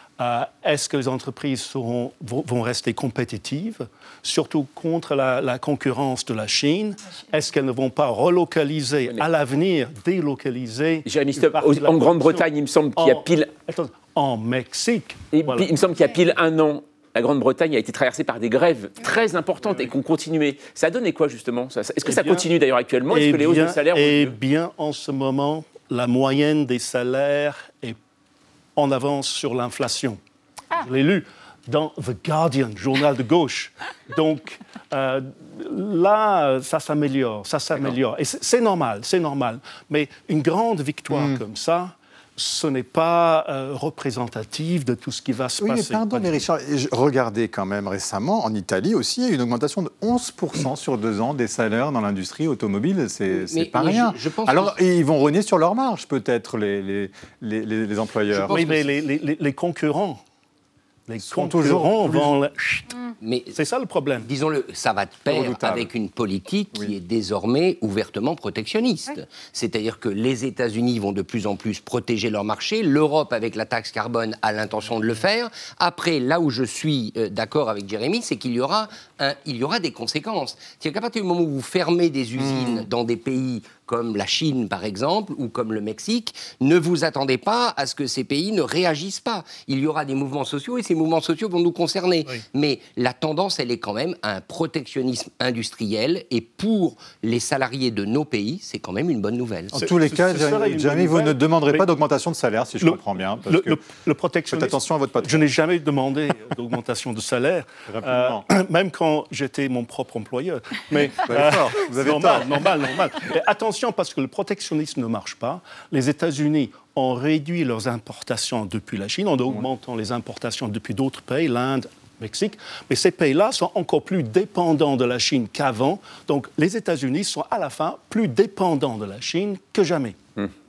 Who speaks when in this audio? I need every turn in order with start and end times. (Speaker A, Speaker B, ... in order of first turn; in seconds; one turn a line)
Speaker A: 0.2-15.7
Speaker B: 11.1-13.5
Speaker B: 15.3-24.4
Speaker A: 19.6-19.9
Speaker A: 22.0-22.5
Speaker A: 23.1-28.0
Speaker A: 28.8-30.2
Speaker A: 30.7-46.4
Speaker C: 41.1-41.4
Speaker C: 45.6-58.8
Speaker D: 53.3-54.8
Speaker A: 58.3-60.2
Speaker A: 61.1-63.0
Speaker C: 61.2-62.3
Speaker D: 63.2-63.6
Speaker A: 63.5-64.3
Speaker D: 64.2-99.7
Speaker C: 65.3-65.9
Speaker C: 82.4-82.9
Speaker C: 99.7-103.8
Speaker A: 99.7-101.9
Speaker A: 102.8-130.2
Speaker C: 104.5-105.5
Speaker C: 107.9-108.5
Speaker C: 111.2-112.7